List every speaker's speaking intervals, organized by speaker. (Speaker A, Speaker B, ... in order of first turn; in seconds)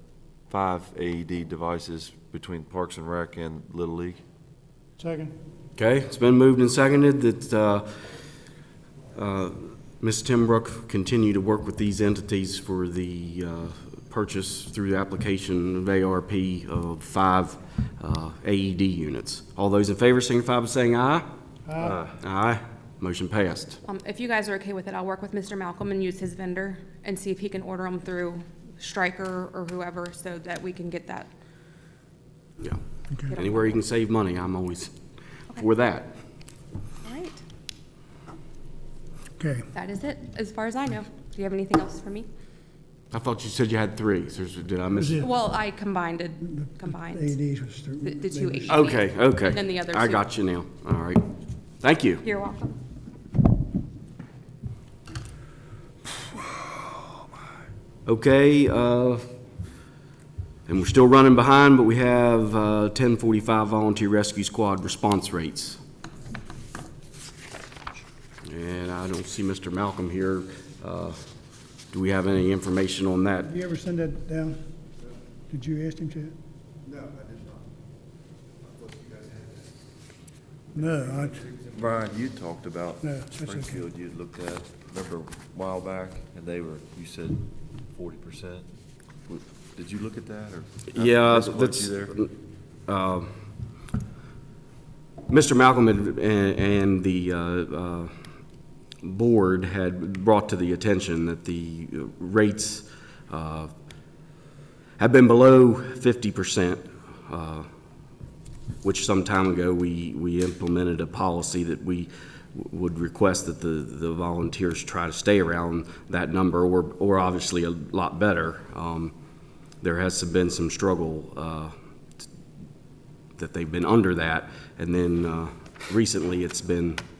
Speaker A: 0.5-4.2, 21.8-22.1, 81.7-88.6, 89.3-92.2
Speaker B: 5.0-5.3, 21.6-22.0, 39.4-39.7, 44.9-45.3, 46.4-48.8, 73.4-74.6, 75.5-76.3, 80.7-81.5, 83.0-83.8
Speaker C: 5.8-7.9, 9.1-21.3, 22.2-23.8, 32.6-34.9, 35.5-36.1, 43.1-45.2, 48.7-51.2, 51.8-52.2, 58.0-59.2, 60.7-65.8, 68.4-71.2, 71.9-73.5, 90.9-92.3, 92.9-93.3, 95.3-98.1, 99.0-103.7, 105.0-107.7, 108.8-119.1, 119.8-121.7, 123.4-127.0
Speaker D: 23.9-31.3, 33.3-33.8, 37.0-37.4, 39.7-42.3, 45.2-47.3, 48.0-50.2, 52.2-52.7